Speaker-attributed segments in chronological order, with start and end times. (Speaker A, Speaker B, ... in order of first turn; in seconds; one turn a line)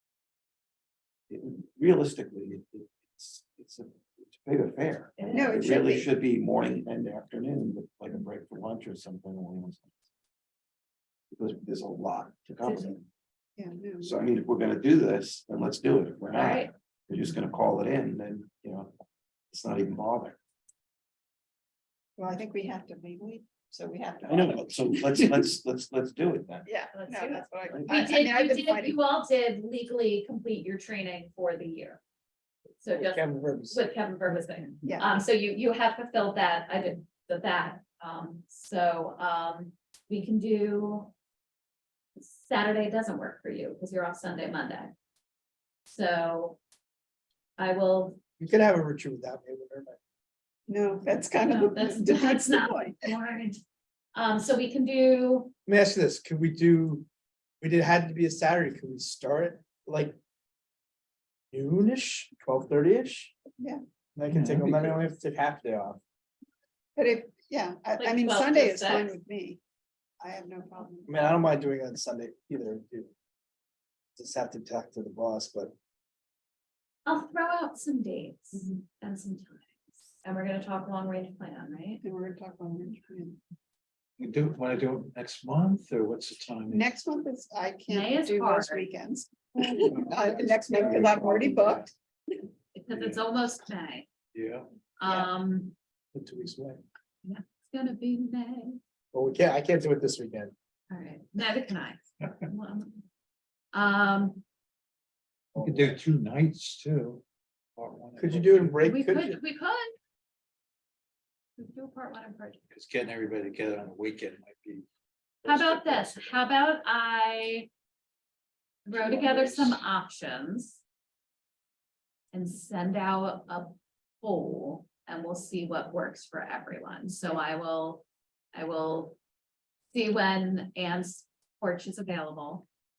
Speaker A: 1.3-9.9
Speaker B: 5.2-5.6
Speaker C: 5.3-6.1
Speaker A: 11.3-13.0
Speaker B: 12.6-12.9
Speaker C: 13.6-14.3
Speaker A: 14.0-18.9
Speaker B: 16.3-16.7
Speaker A: 19.5-20.4
Speaker C: 22.2-25.3
Speaker A: 24.2-26.7
Speaker C: 26.6-29.0
Speaker B: 26.9-32.0
Speaker B: 32.8-41.1
Speaker D: 33.0-33.8
Speaker C: 34.8-35.2
Speaker B: 42.1-44.9
Speaker B: 45.9-46.6
Speaker B: 47.6-48.2
Speaker D: 48.4-50.0
Speaker C: 50.7-53.1
Speaker B: 51.4-53.6
Speaker B: 54.1-55.5
Speaker D: 55.7-57.1
Speaker D: 57.6-60.2
Speaker D: 61.5-63.3
Speaker D: 64.2-66.0
Speaker E: 64.3-65.0
Speaker C: 67.0-69.6
Speaker B: 68.0-69.2
Speaker C: 70.2-71.2
Speaker D: 71.1-73.1
Speaker D: 74.2-75.7
Speaker B: 77.0-82.0
Speaker C: 82.0-83.4
Speaker E: 84.2-86.9
Speaker C: 86.7-91.9
Speaker B: 87.9-88.9
Speaker E: 89.9-91.8
Speaker D: 90.3-91.8
Speaker B: 92.7-94.1
Speaker E: 92.9-93.2
Speaker E: 94.3-94.6
Speaker B: 95.0-95.7
Speaker C: 95.0-95.3
Speaker D: 96.1-96.8
Speaker B: 97.2-98.8
Speaker D: 99.1-100.5
Speaker B: 100.9-103.0
Speaker E: 102.2-102.4
Speaker B: 103.7-104.4
Speaker D: 105.5-106.0
Speaker E: 105.6-107.2
Speaker E: 107.8-108.8
Speaker D: 108.2-109.4
Speaker B: 108.8-109.9
Speaker B: 111.6-112.6
Speaker E: 112.7-114.8
Speaker E: 115.4-116.3
Speaker B: 115.4-117.7
Speaker B: 118.8-120.8
Speaker E: 119.2-119.7
Speaker B: 122.3-129.2
Speaker B: 129.9-132.6